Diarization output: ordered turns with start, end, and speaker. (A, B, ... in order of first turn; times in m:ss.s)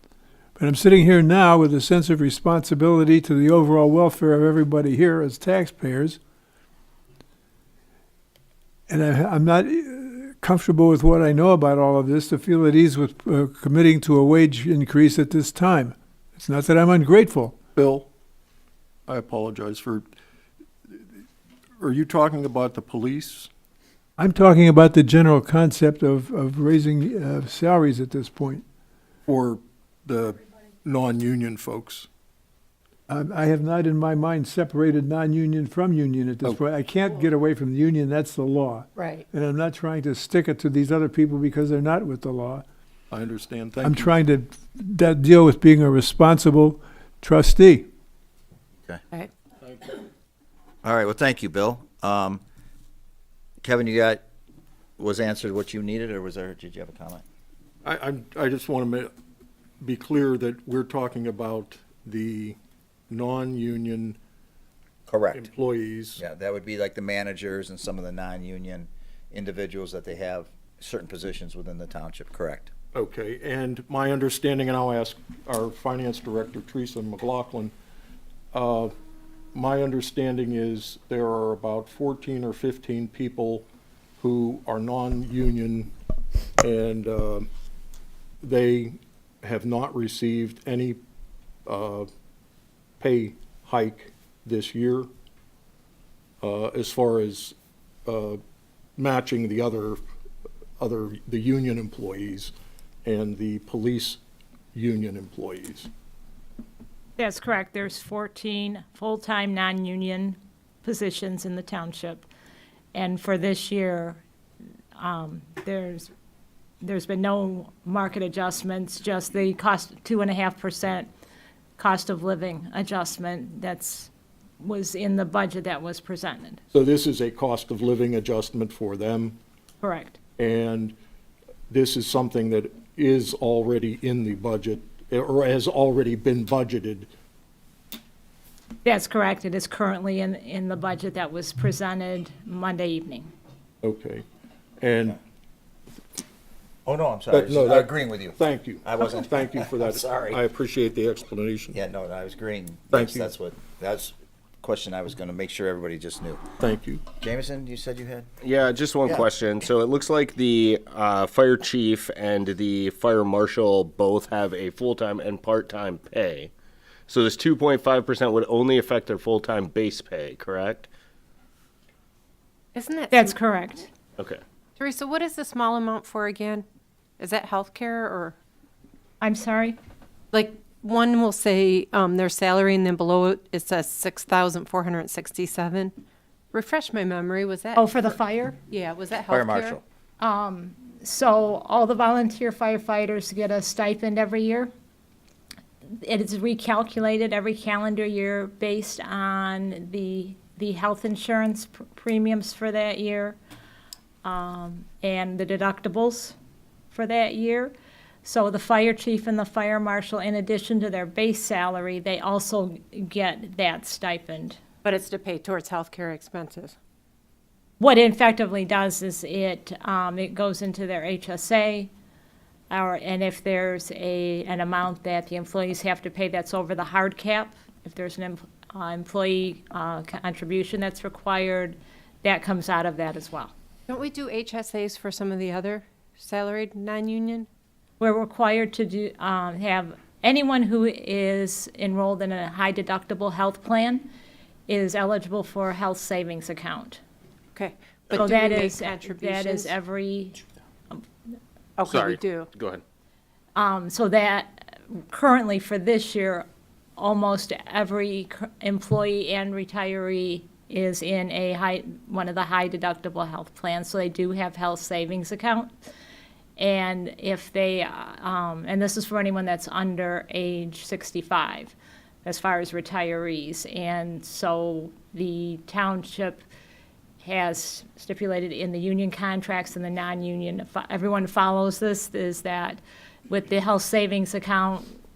0:00.6-0:06.2 A
0:08.9-0:17.6 A
0:17.8-0:18.1 B
0:19.1-0:20.1 B
0:21.8-0:23.5 B
0:24.2-0:28.6 A
0:29.2-0:32.1 B
0:33.1-0:42.6 A
0:39.0-0:39.2 C
0:43.1-0:44.1 B
0:43.8-0:47.9 A
0:50.8-0:52.4 D
0:53.6-0:54.2 D
0:55.0-0:57.2 D
0:57.8-0:59.1 B
0:59.8-1:02.6 B
1:03.1-1:04.2 B
1:05.1-1:05.5 D
1:05.3-1:06.2 B
1:06.2-1:12.7 D
1:12.9-1:17.7 B
1:18.5-1:18.9 B
1:19.5-1:23.7 B
1:24.2-1:25.9 B
1:26.6-1:27.5 B
1:28.4-1:31.0 B
1:31.6-1:32.1 B
1:33.0-1:35.1 B
1:36.4-1:37.5 B
1:38.0-1:38.4 B
1:39.0-1:40.0 B
1:40.8-1:42.5 B
1:43.0-1:44.2 B
1:44.7-1:45.9 B
1:47.2-1:52.2 E
1:52.9-1:54.2 E
1:55.0-1:56.1 E
1:56.8-2:01.1 E
2:01.8-2:06.6 E
2:06.7-2:09.4 B
2:09.8-2:10.2 E
2:10.4-2:10.9 B
2:11.7-2:17.1 B
2:18.8-2:23.3 E
2:23.8-2:24.2 B
2:24.8-2:25.2 B
2:26.8-2:30.4 D
2:27.3-2:31.8 B
2:31.7-2:36.4 D
2:32.9-2:33.3 B
2:36.6-2:37.0 B
2:37.1-2:38.3 D
2:38.4-2:46.5 F
2:47.1-2:50.9 F
2:52.7-2:53.4 C
2:53.1-2:53.9 E
2:54.8-2:56.6 C
2:57.2-2:58.3 C
2:59.2-2:59.8 E
3:00.3-3:05.9 C
3:06.5-3:07.9 C
3:07.8-3:08.6 E
3:08.7-3:09.8 C
3:09.3-3:09.8 D
3:10.2-3:14.7 E
3:16.0-3:23.4 E
3:24.2-3:26.3 E
3:26.9-3:34.6 E
3:34.8-3:36.7 C
3:37.8-3:41.9 E
3:42.7-3:53.5 E
3:53.9-3:57.5 C
3:58.0-4:04.1 E
4:04.7-4:07.0 E
4:07.5-4:09.7 C
4:08.1-4:10.4 E
4:11.8-4:12.5 C
4:11.8-4:12.8 F
4:13.6-4:16.4 E
4:17.0-4:25.7 E
4:26.6-4:36.4 E
4:37.2-4:44.9 E